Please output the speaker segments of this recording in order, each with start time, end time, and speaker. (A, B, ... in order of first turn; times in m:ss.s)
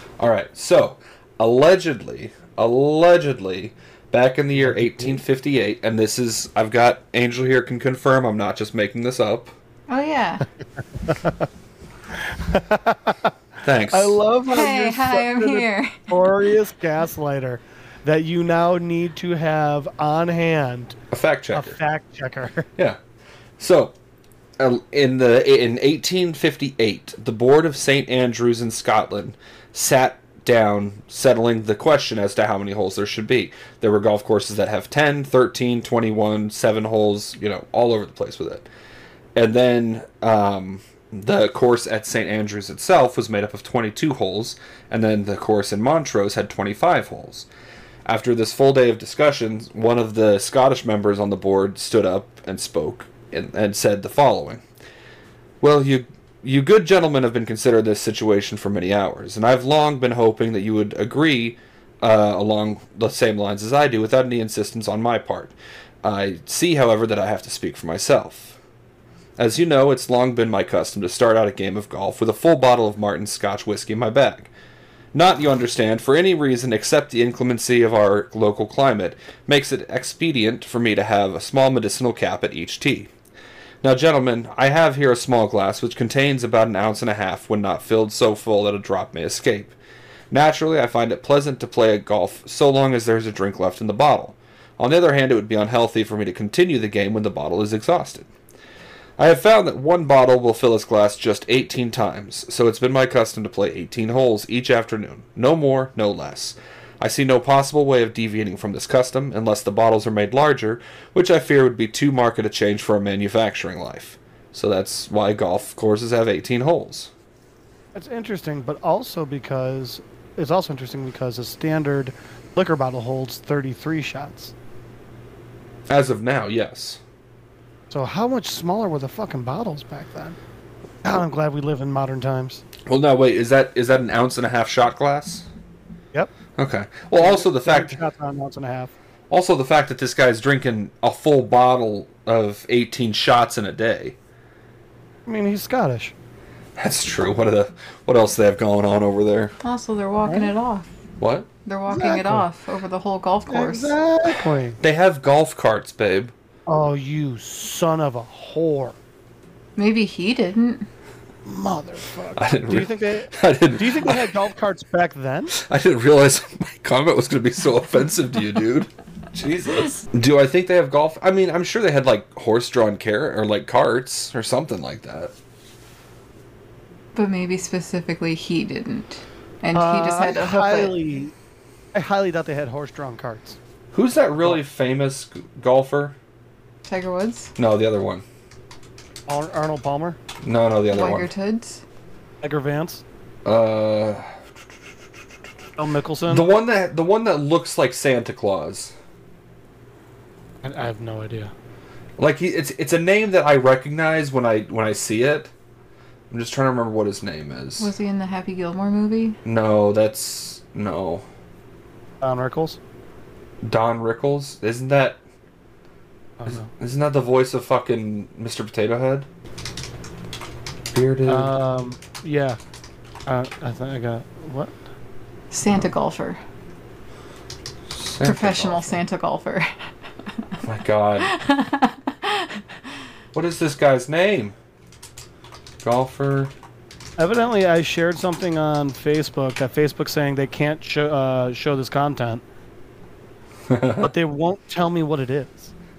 0:00.2-0:09.5 A
0:04.6-0:05.2 B
0:09.9-0:10.4 C
0:11.1-0:11.4 B
0:12.3-0:13.3 B
0:13.6-0:14.2 A
0:13.9-0:21.0 B
0:14.5-0:16.1 C
0:21.1-0:21.8 A
0:21.5-0:22.7 B
0:23.6-0:23.9 A
0:24.6-0:38.7 A
0:39.4-0:47.5 A
0:48.1-0:54.6 A
0:55.6-1:08.6 A
1:09.4-1:14.5 A
1:15.1-1:23.1 A
1:23.8-1:29.8 A
1:30.3-1:38.3 A
1:39.2-1:57.1 A
1:57.9-2:04.5 B
2:05.9-2:07.0 A
2:07.9-2:10.4 B
2:11.0-2:12.6 B
2:12.8-2:15.4 A
2:16.6-2:18.0 A
2:17.2-2:18.9 B
2:19.3-2:24.2 A
2:25.2-2:26.1 B
2:26.8-2:29.5 A
2:29.6-2:30.9 C
2:30.2-2:30.5 B
2:31.2-2:31.5 A
2:31.6-2:33.9 C
2:31.9-2:32.4 B
2:33.5-2:34.8 B
2:34.8-2:36.3 A
2:36.7-2:39.0 B
2:39.8-2:40.9 C
2:41.4-2:45.6 B
2:42.4-2:44.3 A
2:45.5-2:55.3 A
2:57.1-3:00.9 C
2:59.7-3:01.4 B
3:01.9-3:03.6 B
3:03.9-3:06.2 A
3:06.8-3:07.5 C
3:07.6-3:08.2 A
3:09.3-3:10.2 B
3:10.4-3:11.3 A
3:10.9-3:11.8 C
3:12.4-3:13.0 B
3:13.4-3:14.4 A
3:15.8-3:16.4 B
3:16.3-3:18.9 A
3:20.6-3:21.5 B
3:22.2-3:25.5 A
3:26.3-3:27.9 A
3:27.8-3:29.4 C
3:29.4-3:31.2 A
3:32.2-3:32.8 B
3:33.6-3:35.2 A
3:36.4-3:36.7 B
3:36.4-3:39.3 A
3:40.9-3:41.5 A
3:41.3-3:42.6 B
3:43.3-3:44.8 B
3:45.5-3:46.4 C
3:47.9-3:49.0 A
3:48.2-3:49.9 C
3:50.6-3:51.3 A
3:51.2-3:52.6 C
3:53.3-3:54.6 A
3:55.8-3:56.5 A
3:57.2-4:02.4 B
4:03.7-4:04.1 A
4:04.0-4:05.7 B